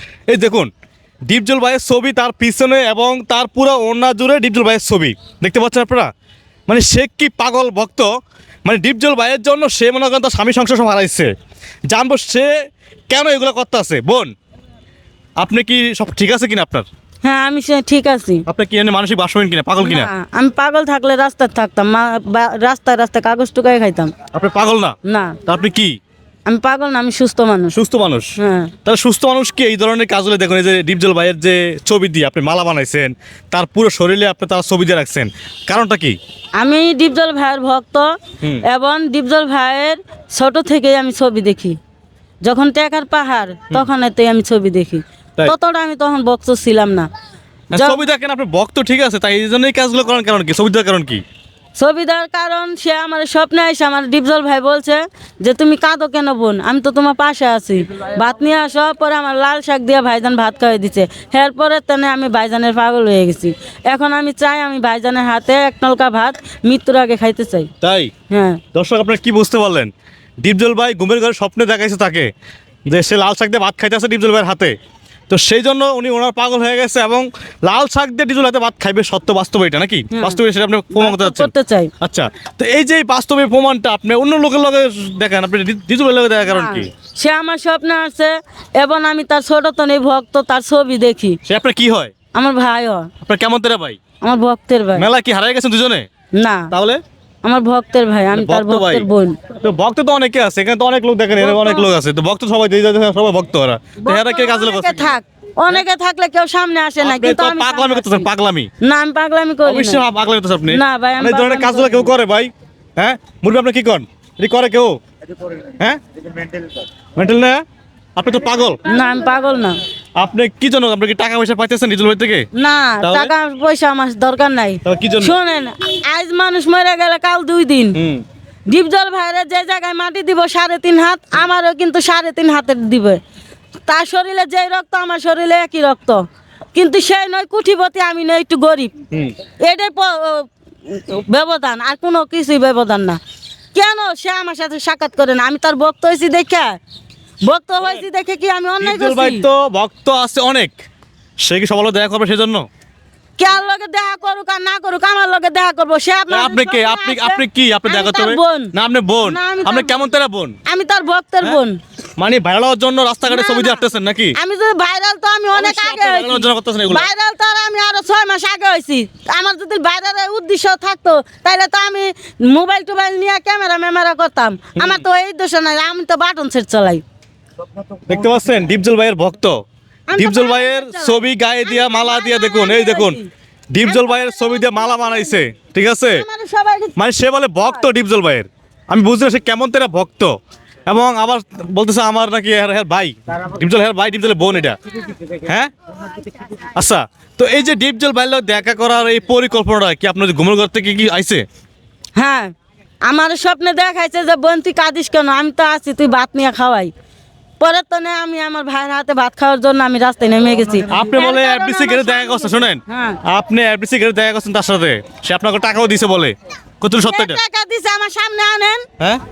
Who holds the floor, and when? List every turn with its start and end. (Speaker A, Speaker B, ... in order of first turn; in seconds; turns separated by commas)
Speaker A: 0.3-0.7, Speaker A: 1.3-6.1, Speaker A: 6.7-8.1, Speaker A: 8.7-11.3, Speaker A: 11.9-12.5, Speaker A: 13.1-14.3, Speaker A: 15.4-16.9, Speaker B: 17.2-18.4, Speaker A: 18.4-20.1, Speaker B: 19.8-24.1, Speaker A: 24.3-25.9, Speaker B: 25.0-25.4, Speaker B: 26.5-27.7, Speaker A: 27.7-28.3, Speaker B: 28.4-28.7, Speaker A: 28.8-36.1, Speaker B: 36.6-38.1, Speaker B: 38.6-41.8, Speaker B: 42.4-47.1, Speaker A: 47.7-51.2, Speaker B: 47.7-48.0, Speaker B: 51.8-67.7, Speaker A: 67.8-68.1, Speaker B: 68.3-68.6, Speaker A: 68.7-69.9, Speaker A: 70.4-72.3, Speaker A: 72.9-74.7, Speaker A: 75.3-81.5, Speaker B: 80.1-80.4, Speaker B: 80.9-81.9, Speaker A: 82.0-86.9, Speaker B: 86.5-91.4, Speaker A: 91.5-92.1, Speaker B: 92.3-93.1, Speaker A: 93.2-94.0, Speaker B: 94.2-95.0, Speaker A: 95.0-96.0, Speaker B: 96.4-96.7, Speaker A: 96.7-97.0, Speaker B: 97.4-99.4, Speaker A: 98.3-99.0, Speaker A: 99.6-105.2, Speaker B: 101.4-101.9, Speaker B: 104.0-108.3, Speaker A: 107.0-108.7, Speaker B: 108.8-110.0, Speaker A: 109.7-115.0, Speaker B: 110.7-112.1, Speaker A: 117.2-117.6, Speaker A: 118.2-118.8, Speaker B: 118.8-119.8, Speaker A: 120.2-122.5, Speaker B: 122.5-128.0, Speaker A: 123.0-123.3, Speaker A: 124.8-125.4, Speaker A: 127.9-128.2, Speaker B: 128.7-133.2, Speaker B: 133.9-136.2, Speaker B: 136.7-138.9, Speaker B: 139.6-143.2, Speaker B: 143.7-146.8, Speaker B: 147.4-149.4, Speaker A: 148.8-150.7, Speaker A: 151.4-152.6, Speaker B: 153.4-159.9, Speaker A: 156.3-160.6, Speaker B: 160.7-161.8, Speaker A: 162.2-164.3, Speaker B: 163.3-163.8, Speaker B: 164.3-177.0, Speaker A: 165.5-167.1, Speaker A: 174.8-175.0, Speaker A: 178.1-179.6, Speaker B: 180.1-183.3, Speaker A: 180.1-183.2, Speaker A: 183.7-186.2, Speaker B: 183.8-185.4, Speaker B: 186.1-186.9, Speaker A: 186.9-190.3, Speaker B: 187.6-187.8, Speaker A: 190.9-194.8, Speaker A: 195.4-195.7, Speaker A: 196.7-201.4, Speaker B: 202.2-202.5, Speaker B: 203.1-206.9, Speaker B: 207.6-213.2, Speaker A: 210.9-217.4, Speaker B: 217.0-218.8